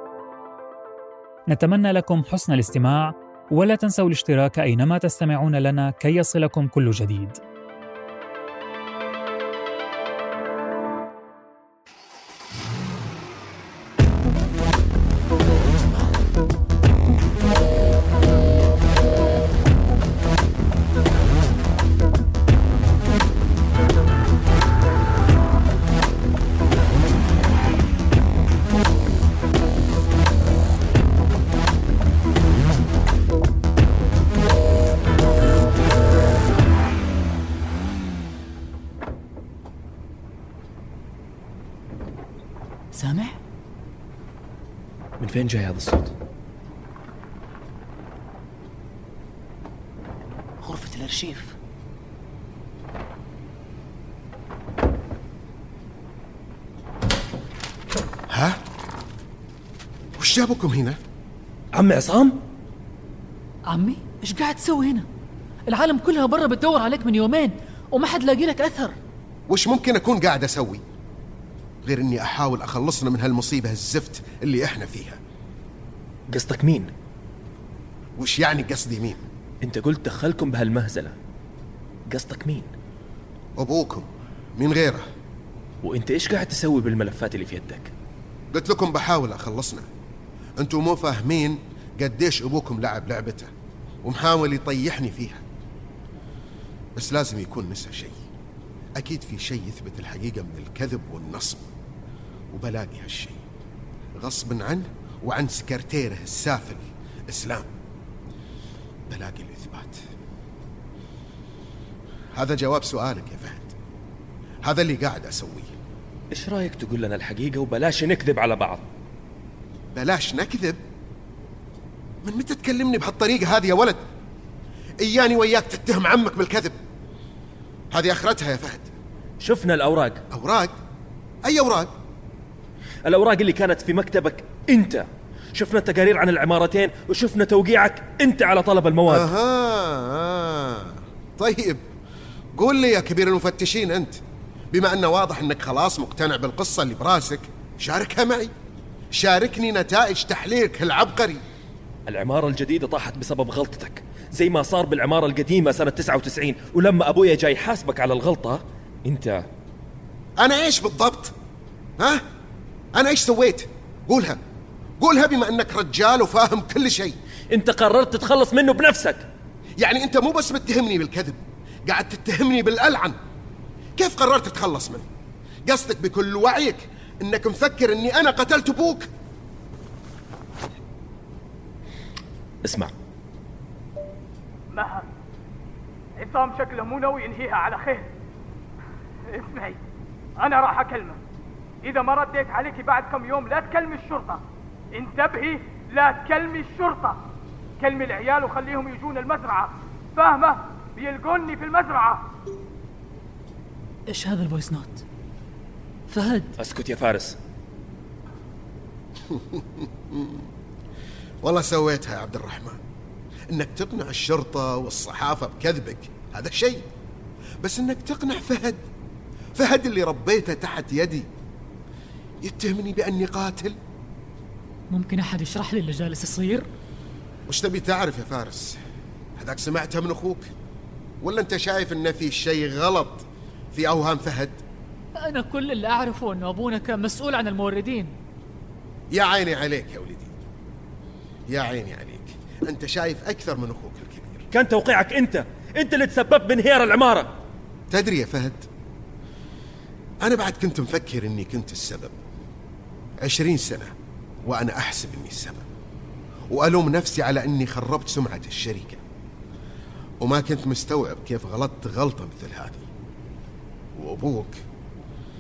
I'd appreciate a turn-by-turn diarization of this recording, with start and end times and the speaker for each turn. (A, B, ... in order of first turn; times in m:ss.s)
0:01.5-0:07.4 A
0:42.9-0:43.4 B
0:45.2-0:46.1 C
0:50.6-0:51.5 B
0:58.3-0:58.6 D
1:00.2-1:01.0 D
1:01.8-1:02.4 C
1:03.7-1:05.1 B
1:05.7-1:09.0 B
1:09.5-1:10.8 D
1:11.9-1:15.2 D
1:16.3-1:16.9 C
1:18.2-1:19.2 D
1:19.6-1:21.2 C
1:22.1-1:22.7 C
1:23.6-1:25.0 D
1:25.8-1:27.9 C
1:28.5-1:29.9 D
1:30.6-1:33.5 D
1:34.0-1:35.4 D
1:37.0-1:38.2 D
1:39.0-1:41.7 D
1:42.5-1:43.4 D
1:44.2-1:47.7 D
1:49.1-1:50.0 D
1:52.4-1:53.7 D
1:54.6-1:55.7 D
1:56.3-1:58.8 C
1:59.9-2:00.8 D
2:02.2-2:04.0 D
2:05.0-2:06.8 D
2:07.9-2:08.9 D
2:09.4-2:10.2 C
2:10.3-2:10.7 D
2:11.4-2:11.9 D
2:13.1-2:19.3 C
2:19.1-2:21.8 D
2:22.6-2:24.2 D
2:24.7-2:28.5 D
2:29.1-2:31.4 D
2:32.1-2:39.4 C
2:40.4-2:41.3 D
2:43.0-2:44.4 D
2:45.0-2:47.2 D
2:47.5-2:49.2 C
2:49.8-2:53.2 D
2:54.0-2:55.0 D
2:55.7-2:59.1 D
3:02.7-3:02.9 C
3:04.7-3:05.1 E
3:06.2-3:08.1 E
3:09.3-3:09.8 E
3:10.4-3:11.2 E
3:11.8-3:17.2 E
3:17.8-3:22.3 E
3:24.1-3:25.0 B
3:26.1-3:26.5 B
3:26.6-3:27.4 C
3:29.3-3:30.4 D
3:31.4-3:32.8 D
3:33.5-3:36.9 D
3:37.6-3:38.8 D
3:39.6-3:41.3 D
3:42.4-3:43.8 D
3:44.9-3:46.7 B
3:47.5-3:48.8 D
3:49.4-3:50.5 D
3:51.2-3:54.6 D
3:55.2-3:58.2 B
3:59.1-4:00.3 D
4:01.5-4:04.5 D
4:04.5-4:07.3 C
4:07.9-4:08.7 D
4:10.2-4:12.1 D
4:13.2-4:13.9 D
4:14.5-4:15.6 D
4:16.5-4:19.0 D
4:20.2-4:22.9 D
4:24.0-4:24.6 D